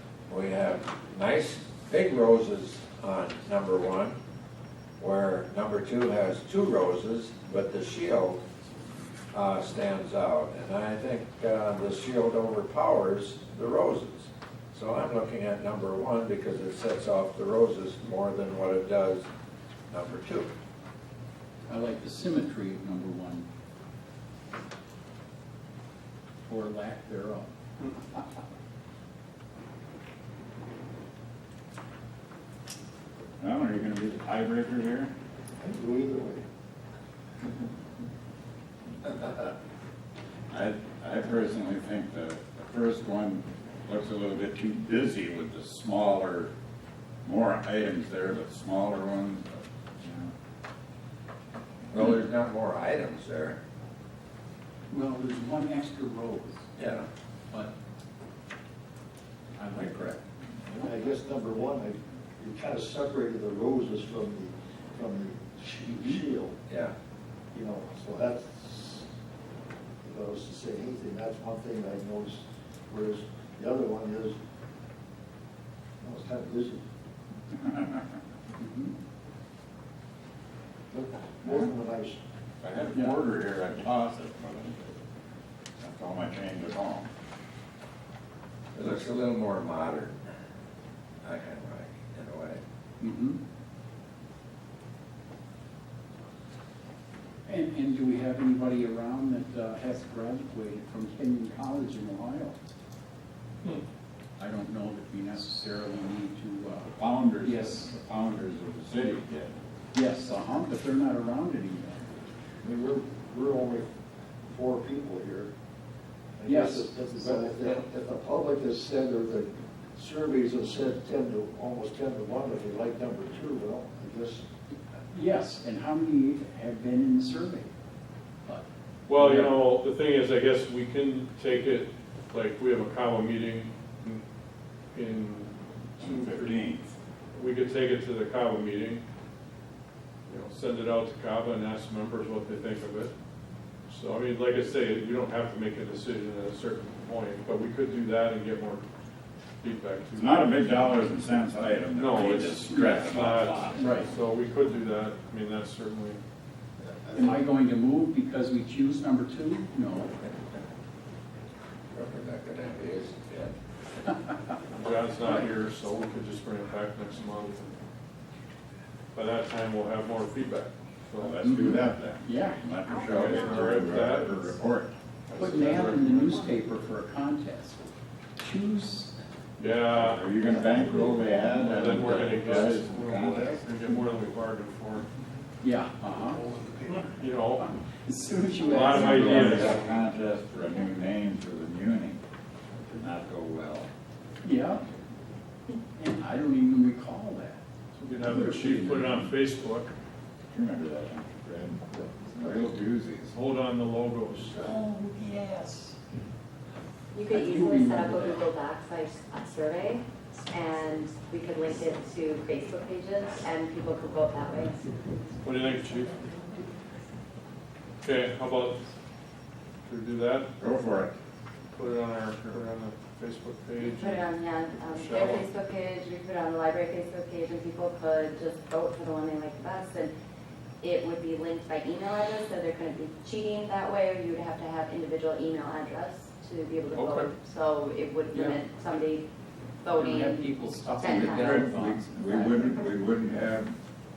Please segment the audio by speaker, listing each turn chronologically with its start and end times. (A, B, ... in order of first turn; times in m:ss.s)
0:00.3-0:04.2 A
0:05.0-0:08.4 A
0:09.3-0:19.3 A
0:19.9-0:20.5 A
0:21.7-0:23.5 B
0:26.4-0:28.2 B
0:33.4-0:35.1 C
0:35.6-0:36.4 D
0:40.5-0:46.5 C
0:47.2-0:50.3 C
0:51.9-0:53.6 A
0:54.9-0:56.7 B
0:56.8-0:57.1 A
0:59.6-1:00.9 B
1:00.8-1:06.6 D
1:06.7-1:06.9 A
1:07.5-1:09.0 D
1:10.0-1:14.4 D
1:16.0-1:16.8 D
1:17.6-1:18.0 C
1:18.6-1:19.0 B
1:20.9-1:22.2 D
1:21.4-1:21.7 C
1:22.6-1:25.0 C
1:25.8-1:27.1 C
1:28.7-1:30.2 A
1:31.2-1:32.6 A
1:33.0-1:33.4 B
1:37.4-1:42.6 B
1:44.4-1:47.9 B
1:46.9-1:49.5 C
1:49.9-1:52.1 B
1:52.6-1:53.9 D
1:54.4-1:55.5 D
1:56.4-2:04.4 D
1:56.4-1:57.5 B
2:05.1-2:07.7 B
2:08.4-2:09.6 B
2:09.0-2:14.2 E
2:14.9-2:16.6 E
2:16.0-2:16.9 C
2:17.3-2:19.0 E
2:20.2-2:23.1 E
2:23.9-2:28.8 E
2:29.6-2:30.9 E
2:30.2-2:33.9 C
2:31.9-2:36.2 E
2:33.7-2:34.1 B
2:36.8-2:37.3 D
2:37.1-2:40.1 B
2:41.9-2:43.5 A
2:44.7-2:47.7 E
2:45.2-2:45.5 B
2:49.1-2:51.4 E
2:51.2-2:54.9 C
2:51.4-2:52.6 B
2:53.0-2:54.4 E
2:55.3-2:56.6 E
2:55.4-2:57.8 B
2:58.4-2:59.2 B
2:59.6-3:00.3 E
2:59.9-3:03.6 C
3:00.6-3:01.2 D
3:01.4-3:05.1 E
3:05.6-3:06.4 B
3:06.4-3:06.8 D
3:06.9-3:07.6 E
3:07.6-3:09.8 B
3:08.6-3:09.7 E
3:09.0-3:12.2 C
3:12.8-3:13.9 C
3:14.4-3:14.8 B
3:15.9-3:17.6 B
3:17.9-3:19.9 E
3:18.2-3:19.3 B
3:20.5-3:23.4 C
3:23.3-3:24.6 E
3:24.6-3:26.0 B
3:27.1-3:34.9 F
3:27.3-3:28.4 B
3:35.4-3:36.2 E
3:38.0-3:38.8 E
3:39.8-3:40.5 E
3:40.6-3:41.1 C
3:41.7-3:44.3 E
3:43.8-3:50.1 F
3:44.8-3:45.5 E
3:50.8-3:59.2 F
3:56.9-3:57.3 E
3:59.8-4:01.6 F
3:59.9-4:02.6 B
4:01.4-4:03.8 C